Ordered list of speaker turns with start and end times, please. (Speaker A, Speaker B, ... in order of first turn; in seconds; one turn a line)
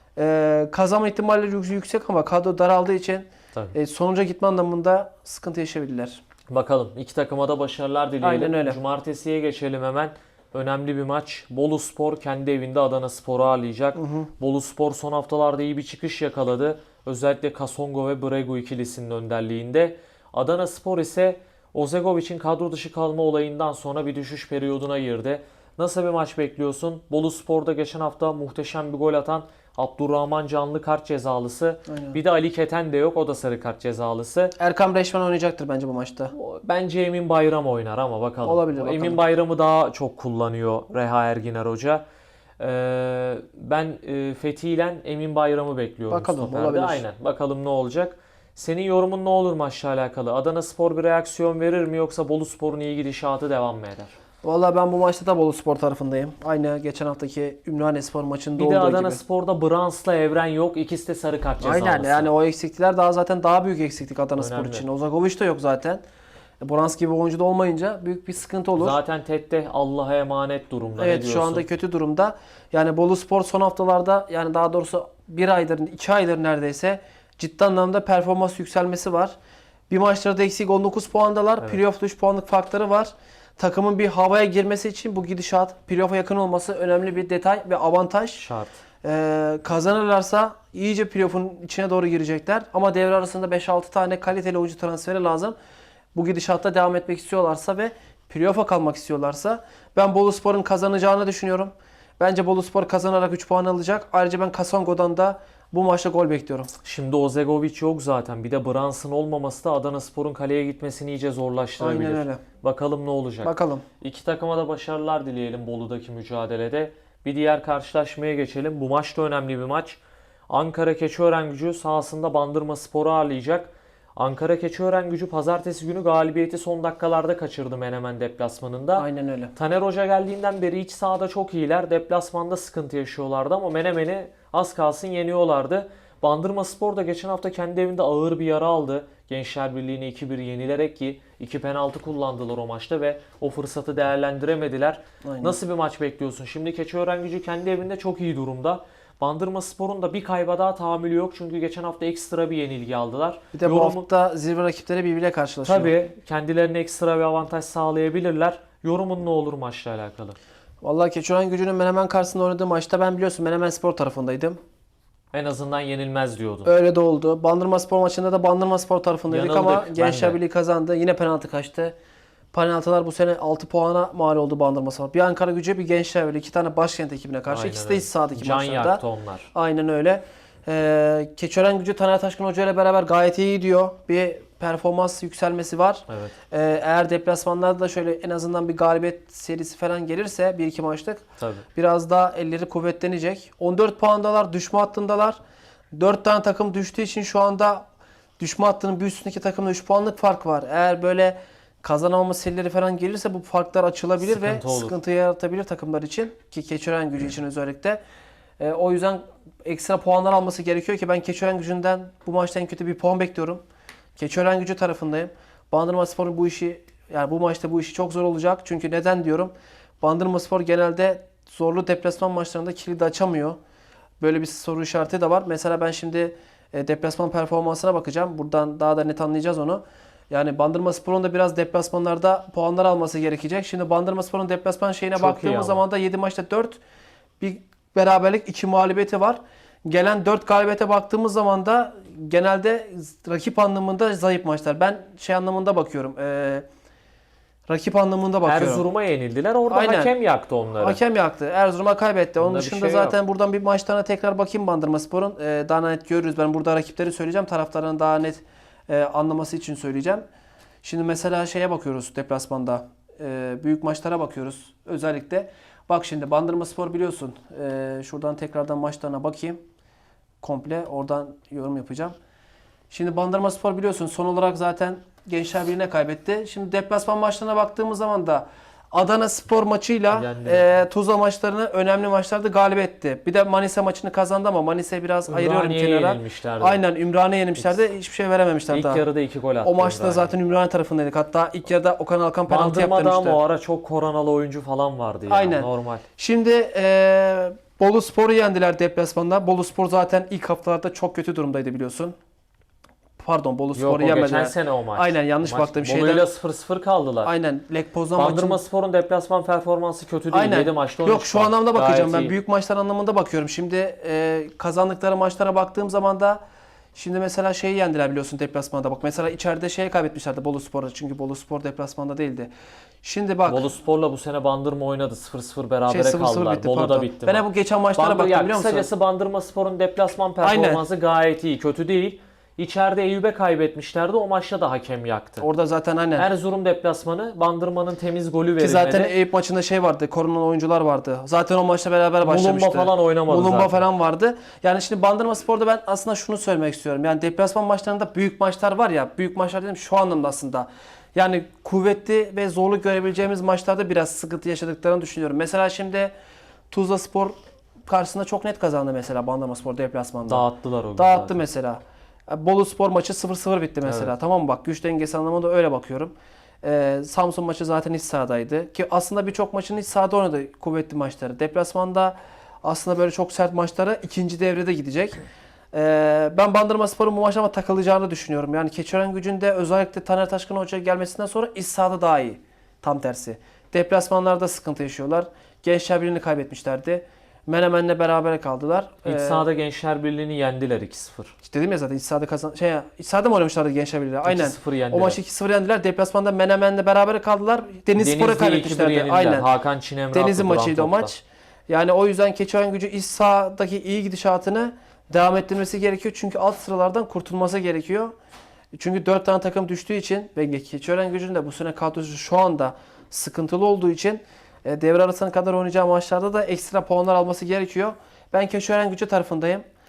Speaker A: 0.2-6.2
Speaker B: 6.5-34.6
Speaker A: 8.2-8.8
Speaker A: 13.9-14.3
Speaker A: 31.9-32.2
Speaker A: 34.6-36.3
Speaker B: 36.3-42.0
Speaker A: 38.4-39.2
Speaker B: 42.6-54.2
Speaker A: 46.1-47.0
Speaker A: 54.4-59.2
Speaker B: 58.6-62.3
Speaker A: 61.6-66.0
Speaker B: 64.4-64.9
Speaker A: 66.6-69.0
Speaker B: 68.8-71.7
Speaker A: 71.0-79.4
Speaker A: 79.9-88.5
Speaker B: 88.4-88.8
Speaker A: 89.0-95.5
Speaker A: 96.1-106.7
Speaker B: 106.8-154.1
Speaker A: 111.8-112.4
Speaker A: 113.4-113.8
Speaker A: 129.0-129.5
Speaker A: 145.2-145.6
Speaker A: 153.5-155.9
Speaker B: 155.7-160.4
Speaker A: 160.8-164.6
Speaker B: 165.3-166.7
Speaker A: 166.7-171.9
Speaker B: 169.3-170.4
Speaker A: 172.5-179.0
Speaker B: 177.5-179.5
Speaker A: 179.5-191.2
Speaker B: 186.1-186.3
Speaker B: 191.4-191.7
Speaker A: 191.8-195.4
Speaker A: 195.9-197.8
Speaker A: 198.4-208.0
Speaker B: 204.2-205.0
Speaker A: 208.6-213.6
Speaker A: 214.2-223.6
Speaker A: 224.2-236.8
Speaker B: 235.2-235.8
Speaker A: 237.4-246.7
Speaker A: 247.7-248.8
Speaker B: 248.4-251.0
Speaker A: 249.7-250.1
Speaker A: 250.8-260.2
Speaker B: 252.4-253.2
Speaker A: 260.8-269.6
Speaker A: 270.4-272.2
Speaker A: 272.9-289.1
Speaker B: 280.1-280.8
Speaker B: 285.3-286.8
Speaker B: 288.7-290.3
Speaker A: 289.6-293.4
Speaker B: 292.5-296.1
Speaker A: 295.3-302.2
Speaker A: 303.2-306.3
Speaker B: 303.8-307.3
Speaker A: 307.2-308.6
Speaker B: 308.2-312.4
Speaker A: 310.3-316.4
Speaker A: 316.9-322.5
Speaker A: 323.0-323.7
Speaker B: 323.5-327.4
Speaker A: 325.9-328.9
Speaker B: 328.0-335.5
Speaker A: 330.4-330.8
Speaker A: 335.4-336.3
Speaker B: 336.2-339.1
Speaker A: 338.6-356.1
Speaker B: 342.2-343.8
Speaker A: 356.7-357.4
Speaker A: 357.9-375.2
Speaker B: 360.2-361.4
Speaker B: 363.8-364.1
Speaker A: 375.7-389.4
Speaker B: 389.0-391.3
Speaker A: 391.4-399.5
Speaker B: 394.2-395.2
Speaker B: 398.0-401.1
Speaker A: 400.1-408.1
Speaker A: 408.7-419.6